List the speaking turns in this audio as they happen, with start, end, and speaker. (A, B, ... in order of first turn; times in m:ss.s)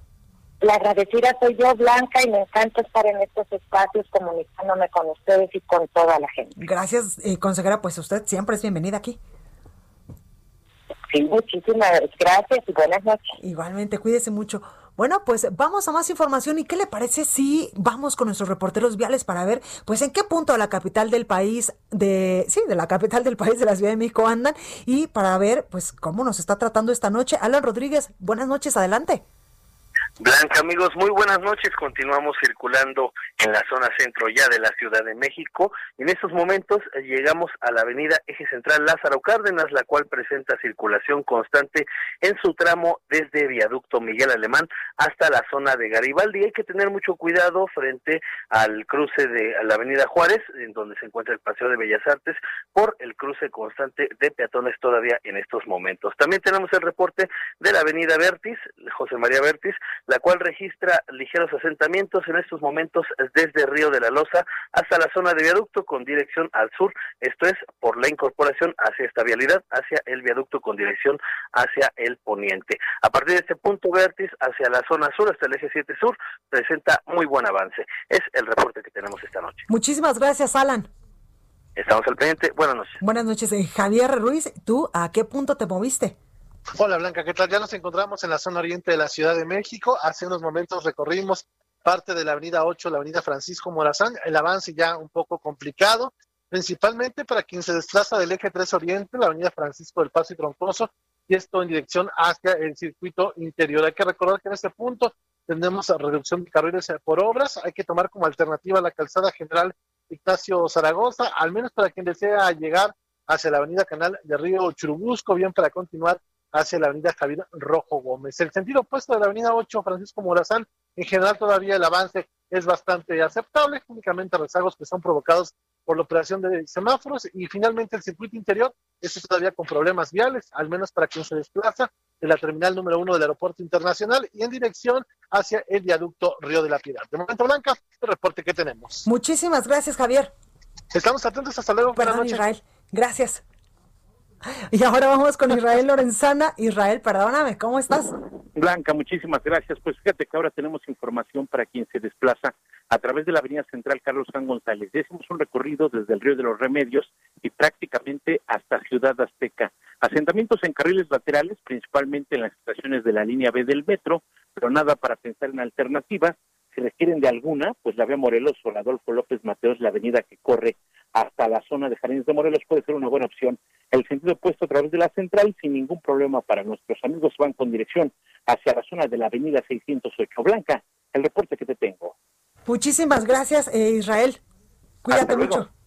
0:00.6-0:06.5 A
0:06.6-0:09.2 B
0:11.1-0:13.4 A
0:13.4-0:29.2 B
0:30.2-1:19.6 C
1:19.7-1:20.9 B
1:21.8-1:23.0 C
1:23.0-1:26.2 B
1:26.8-2:19.0 D
2:19.0-2:20.3 B
2:20.9-2:22.4 D
2:22.0-2:23.4 B
2:24.4-2:28.1 B
2:28.6-3:02.1 E
3:02.7-3:04.4 B
3:05.0-3:05.7 B
3:05.1-3:05.6 E